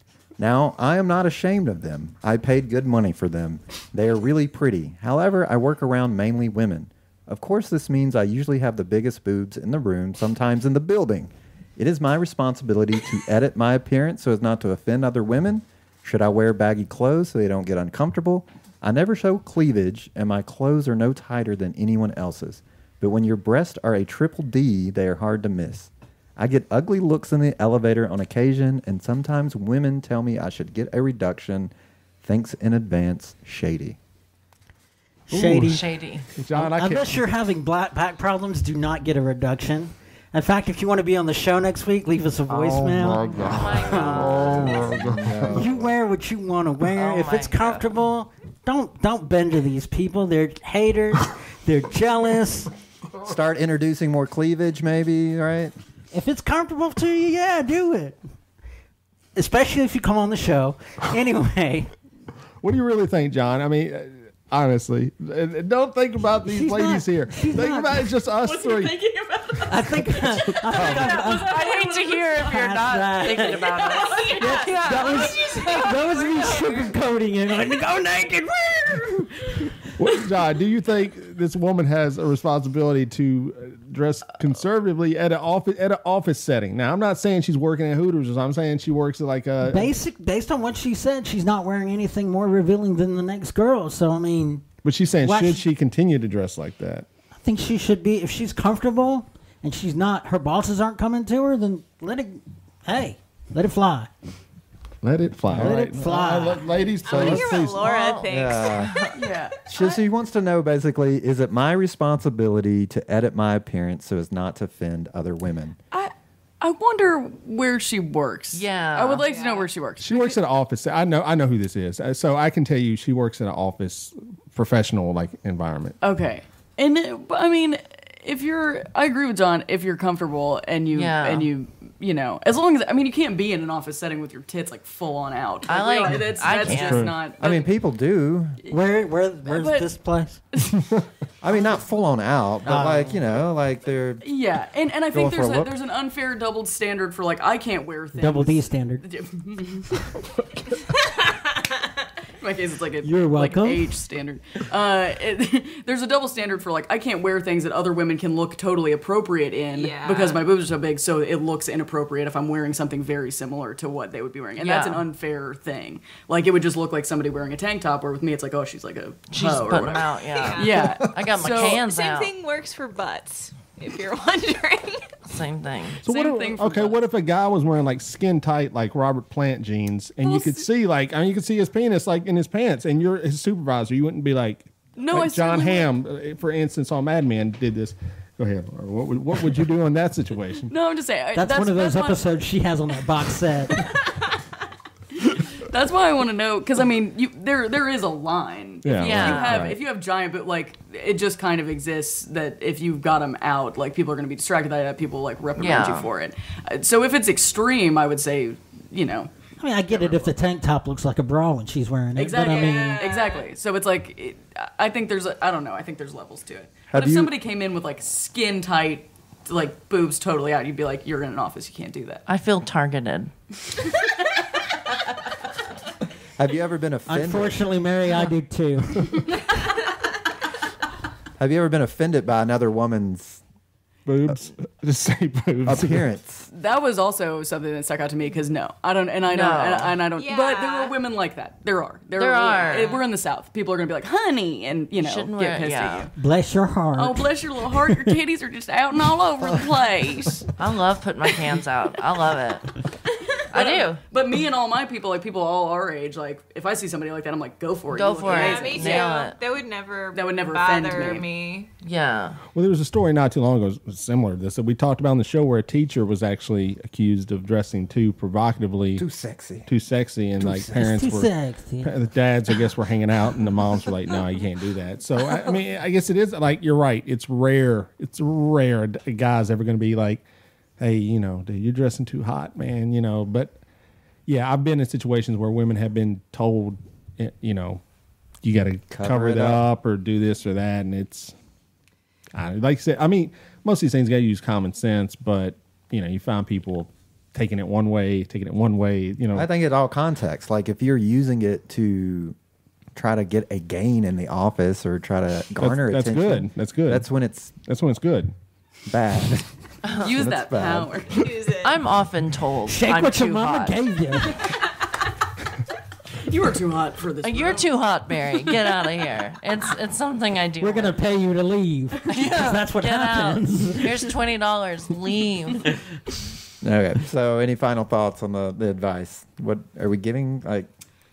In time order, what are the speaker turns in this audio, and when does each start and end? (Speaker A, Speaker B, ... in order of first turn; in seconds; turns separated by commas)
Speaker A: 0.4-31.7, Speaker A: 32.2-34.0, Speaker B: 35.3-35.8, Speaker C: 35.3-35.8, Speaker D: 35.7-36.2, Speaker C: 36.4-37.2, Speaker B: 36.5-44.8, Speaker C: 42.5-45.6, Speaker D: 43.4-44.8, Speaker A: 44.1-45.9, Speaker B: 45.5-52.7, Speaker D: 46.9-47.8, Speaker A: 53.2-55.7, Speaker B: 56.1-58.2, Speaker B: 59.4-61.9, Speaker C: 62.6-69.0, Speaker B: 66.4-68.1, Speaker E: 68.4-70.2, Speaker B: 69.7-71.5, Speaker C: 70.7-71.1, Speaker E: 70.7-72.5, Speaker F: 70.8-71.9, Speaker D: 71.3-75.3, Speaker B: 72.5-73.7, Speaker F: 73.7-76.9, Speaker E: 73.9-75.0, Speaker B: 74.4-79.3, Speaker C: 80.0-89.9, Speaker B: 89.6-94.6, Speaker C: 94.8-97.0, Speaker B: 95.2-95.6, Speaker B: 97.4-104.1, Speaker C: 105.0-107.8, Speaker B: 105.5-106.7, Speaker A: 105.6-105.9, Speaker F: 107.0-109.0, Speaker A: 107.0-107.6, Speaker D: 107.8-109.2, Speaker A: 108.3-109.0, Speaker E: 109.1-109.6, Speaker A: 109.7-115.8, Speaker F: 109.7-110.0, Speaker E: 115.9-120.4, Speaker D: 118.5-119.3, Speaker F: 119.2-119.7, Speaker C: 120.0-126.0, Speaker E: 126.0-137.7, Speaker D: 130.9-131.5, Speaker D: 135.7-137.1, Speaker C: 136.1-137.2, Speaker A: 137.4-138.6, Speaker B: 138.7-140.4, Speaker E: 139.4-140.0, Speaker A: 141.4-144.2, Speaker B: 142.6-143.2, Speaker E: 144.2-150.1, Speaker A: 145.1-145.7, Speaker B: 148.2-149.0, Speaker F: 151.1-151.4, Speaker E: 152.4-171.8, Speaker B: 153.0-153.9, Speaker F: 159.7-160.4, Speaker D: 164.6-165.0, Speaker D: 169.3-172.3, Speaker F: 170.4-170.9, Speaker F: 171.4-175.1, Speaker D: 175.3-176.0, Speaker C: 176.0-190.7, Speaker E: 176.1-177.0, Speaker E: 180.2-180.7, Speaker E: 184.9-185.9, Speaker E: 190.7-192.3, Speaker B: 191.3-193.9, Speaker E: 195.2-209.3, Speaker C: 198.8-199.7, Speaker D: 199.0-199.7, Speaker D: 205.6-206.1, Speaker B: 209.6-213.0, Speaker E: 209.9-210.3, Speaker E: 212.1-222.2, Speaker F: 212.5-213.5, Speaker A: 216.9-217.3, Speaker D: 222.3-223.3, Speaker A: 226.4-227.6, Speaker B: 227.1-229.1, Speaker A: 231.4-233.4, Speaker C: 234.1-236.1, Speaker A: 235.7-236.5, Speaker E: 236.5-246.1, Speaker D: 239.3-239.9, Speaker F: 240.2-241.0, Speaker D: 242.2-243.0, Speaker F: 242.5-243.1, Speaker D: 245.0-246.1, Speaker B: 246.2-248.1, Speaker E: 246.9-250.5, Speaker D: 250.6-252.7, Speaker D: 253.5-254.0, Speaker E: 253.5-259.1, Speaker D: 257.9-259.3, Speaker F: 258.2-261.7, Speaker E: 260.1-261.2, Speaker D: 261.8-262.4, Speaker C: 262.5-269.0, Speaker A: 268.9-269.7, Speaker C: 269.6-271.3, Speaker B: 270.4-271.9, Speaker C: 271.8-280.2, Speaker C: 280.8-283.6, Speaker C: 284.3-287.8, Speaker C: 288.4-291.3, Speaker A: 288.9-289.6, Speaker C: 292.3-299.5, Speaker A: 299.3-302.4, Speaker A: 302.9-307.6, Speaker C: 305.6-307.0, Speaker C: 307.6-308.3, Speaker A: 308.9-309.4, Speaker D: 309.8-310.1, Speaker E: 310.0-311.2, Speaker A: 310.0-311.2, Speaker F: 311.2-311.8, Speaker D: 311.6-313.8, Speaker B: 312.7-314.4, Speaker E: 316.2-317.7, Speaker D: 317.2-321.0, Speaker B: 320.6-324.1, Speaker D: 322.1-325.8, Speaker A: 326.6-330.7